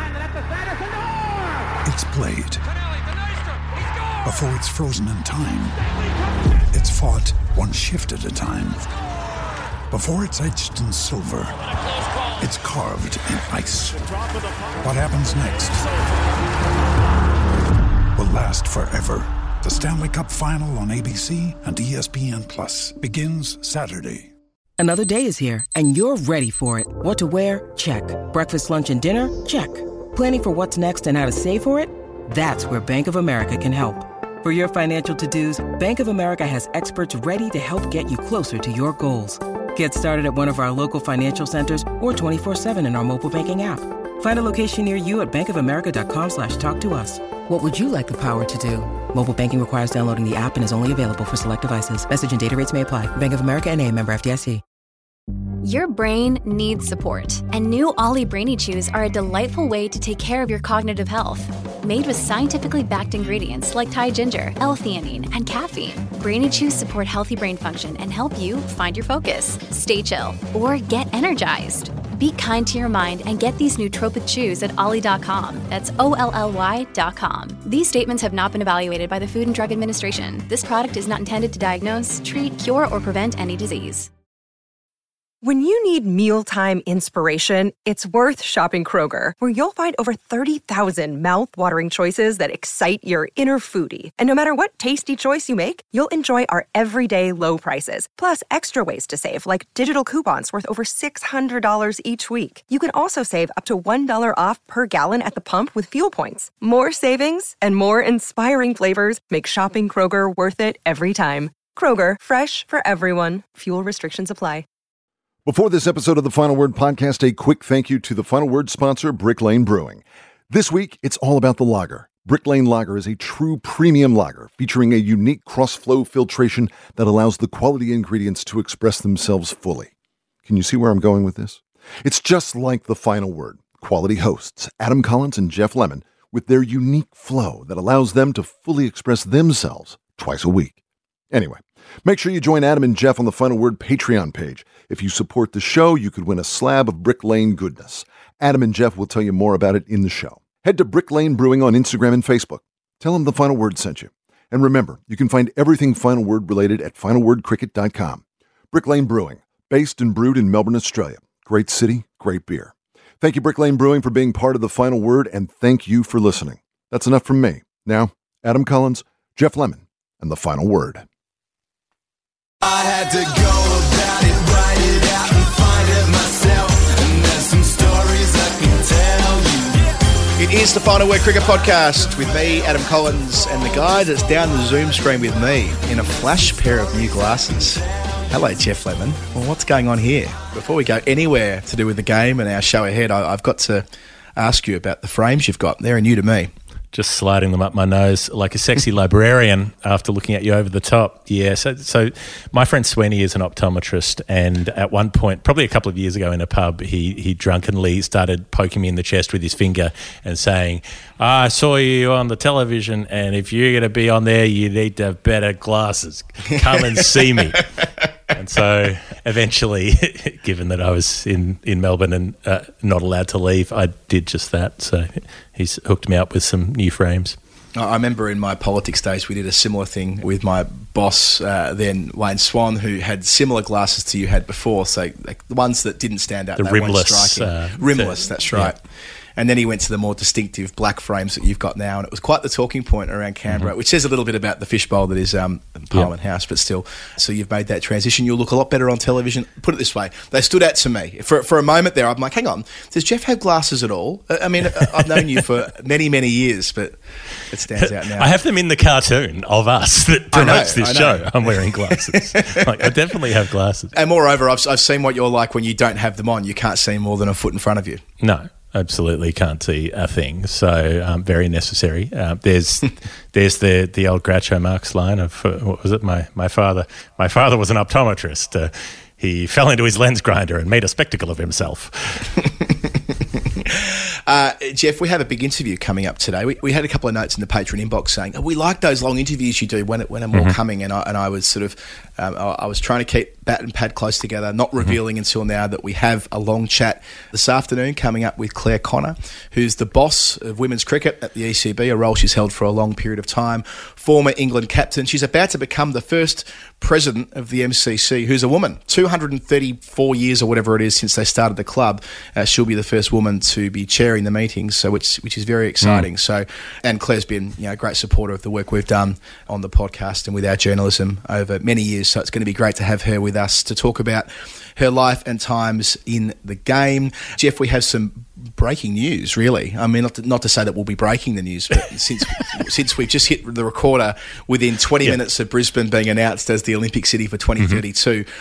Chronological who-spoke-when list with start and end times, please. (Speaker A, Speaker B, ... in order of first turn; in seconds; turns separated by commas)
Speaker A: 1.8-2.6, Speaker A: 4.2-5.8, Speaker A: 6.7-8.9, Speaker A: 9.9-11.6, Speaker A: 12.4-14.1, Speaker A: 14.8-15.9, Speaker A: 18.1-24.3, Speaker B: 24.8-54.6, Speaker C: 55.6-84.1, Speaker D: 85.4-114.7, Speaker E: 115.5-129.9, Speaker E: 130.5-140.8, Speaker E: 141.3-171.1, Speaker F: 172.8-173.6, Speaker F: 175.6-176.5, Speaker F: 177.7-179.2, Speaker G: 180.4-193.9, Speaker G: 194.4-196.5, Speaker H: 196.9-217.7, Speaker H: 218.3-227.4, Speaker G: 227.8-238.8, Speaker H: 236.6-238.7, Speaker G: 239.4-258.4, Speaker H: 254.8-255.2, Speaker H: 257.7-263.9, Speaker G: 260.3-262.8, Speaker G: 263.9-268.0, Speaker H: 268.2-282.4, Speaker G: 283.7-338.3, Speaker H: 315.8-316.1